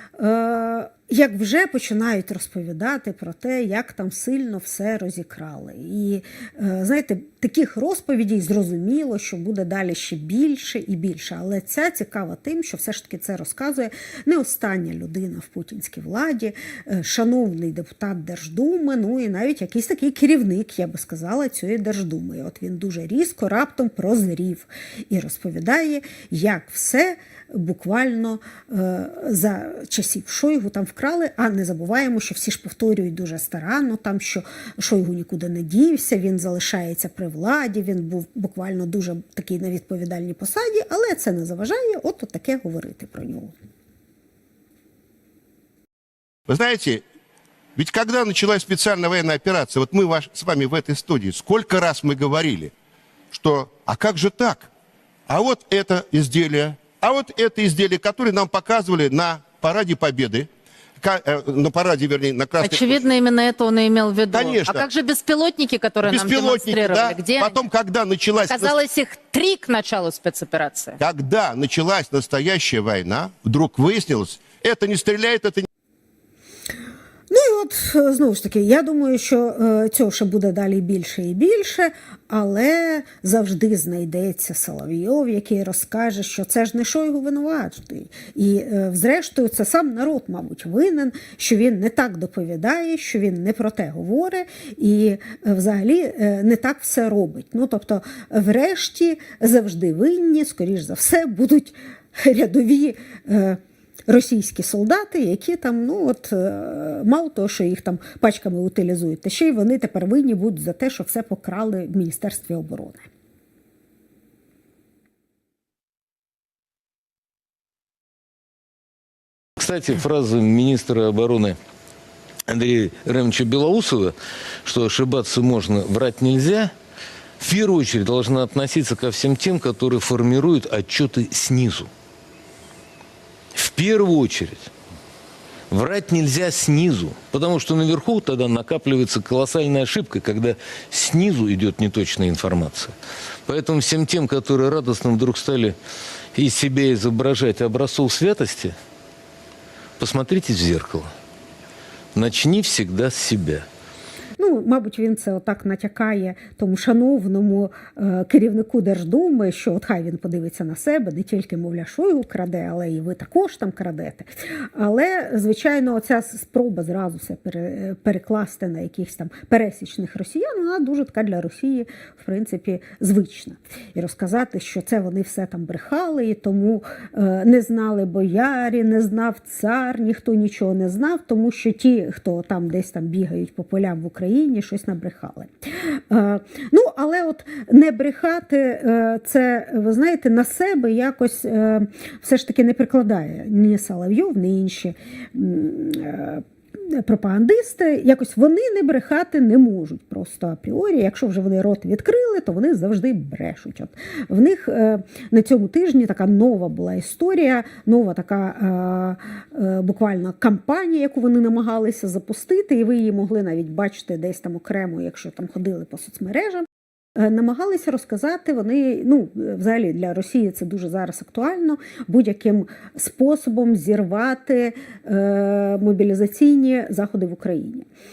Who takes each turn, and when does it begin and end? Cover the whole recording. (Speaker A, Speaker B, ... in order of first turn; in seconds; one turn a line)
Speaker A: 0.2-43.5
Speaker B: 46.5-47.0
Speaker B: 47.8-52.7
Speaker B: 53.3-54.7
Speaker B: 55.3-63.0
Speaker C: 62.6-67.6
Speaker B: 64.3-64.8
Speaker B: 66.0-68.8
Speaker C: 68.5-71.0
Speaker B: 71.0-75.7
Speaker A: 77.3-113.1
Speaker D: 119.6-121.6
Speaker D: 122.5-126.7
Speaker D: 127.4-131.9
Speaker D: 133.5-134.7
Speaker D: 135.7-142.9
Speaker D: 143.4-145.8
Speaker D: 146.3-148.7
Speaker D: 150.0-151.1
Speaker D: 152.1-153.6
Speaker A: 154.4-227.9